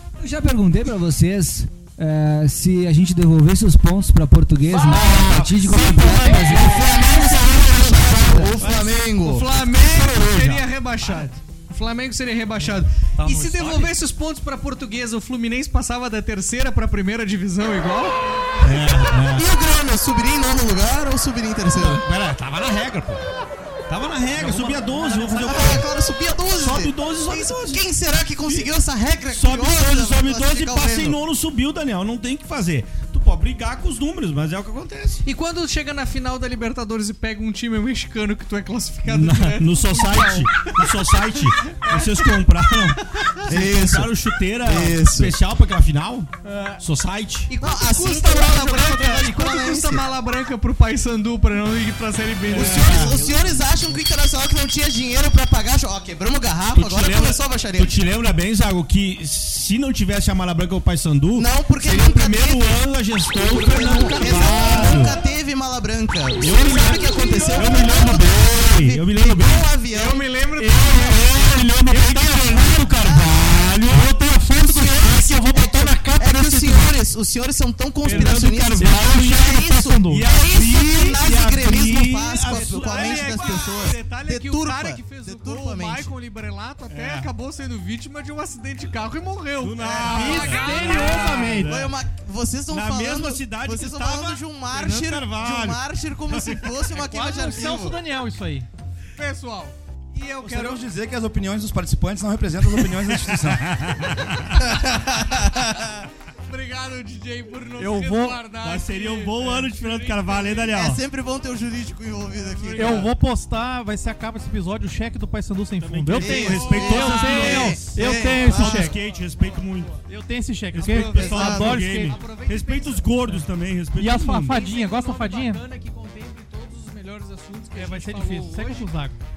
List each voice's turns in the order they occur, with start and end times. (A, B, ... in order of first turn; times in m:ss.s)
0:00.2-0:07.5 A
0:04.7-0:07.8 B
0:05.0-0:06.2 C
0:06.0-0:09.4 D
0:07.3-0:11.2 C
0:09.2-0:18.2 E
0:13.2-0:13.9 B
0:18.6-0:19.5 C
0:19.3-0:22.0 D
0:21.7-0:23.3 C
0:23.9-0:25.9 C
0:24.4-0:25.8 B
0:25.4-0:31.2 D
0:26.5-0:27.8 C
0:29.3-0:35.2 C
0:35.2-0:43.3 E
0:39.1-0:46.3 C
0:43.5-0:45.4 D
0:46.4-0:46.8 E
0:46.8-0:47.5 C
0:47.5-0:53.4 E
0:47.5-0:50.0 D
0:52.5-0:53.8 C
0:52.5-0:58.0 D
0:56.7-1:05.2 C
1:01.4-1:02.8 D
1:03.5-1:10.2 D
1:06.4-1:09.7 C
1:09.9-1:11.2 E
1:10.6-1:14.8 C
1:11.0-1:12.9 B
1:12.6-1:13.7 D
1:13.9-1:17.0 B
1:14.6-1:26.1 D
1:18.0-1:19.1 C
1:18.0-1:20.3 B
1:20.1-1:24.0 C
1:22.4-1:31.5 E
1:26.9-1:27.3 C
1:29.6-1:31.9 C
1:30.0-1:31.8 B
1:31.0-1:38.0 D
1:32.7-1:36.7 C
1:37.0-1:38.7 B
1:39.2-1:40.8 E
1:40.4-1:43.8 F
1:42.8-1:44.7 C
1:44.6-1:46.0 D
1:46.5-1:50.7 E
1:47.8-1:48.4 B
1:48.5-1:51.0 C
1:50.7-1:53.1 D
1:52.3-1:53.1 E
1:52.7-1:58.9 B
1:55.8-2:00.0 C
1:56.2-1:58.9 D
1:56.2-2:00.0 E
2:00.0-2:02.2 B
2:00.7-2:04.6 C
2:00.8-2:03.4 E
2:00.9-2:01.8 D
2:04.0-2:05.6 B
2:04.4-2:08.9 E
2:07.7-2:09.2 B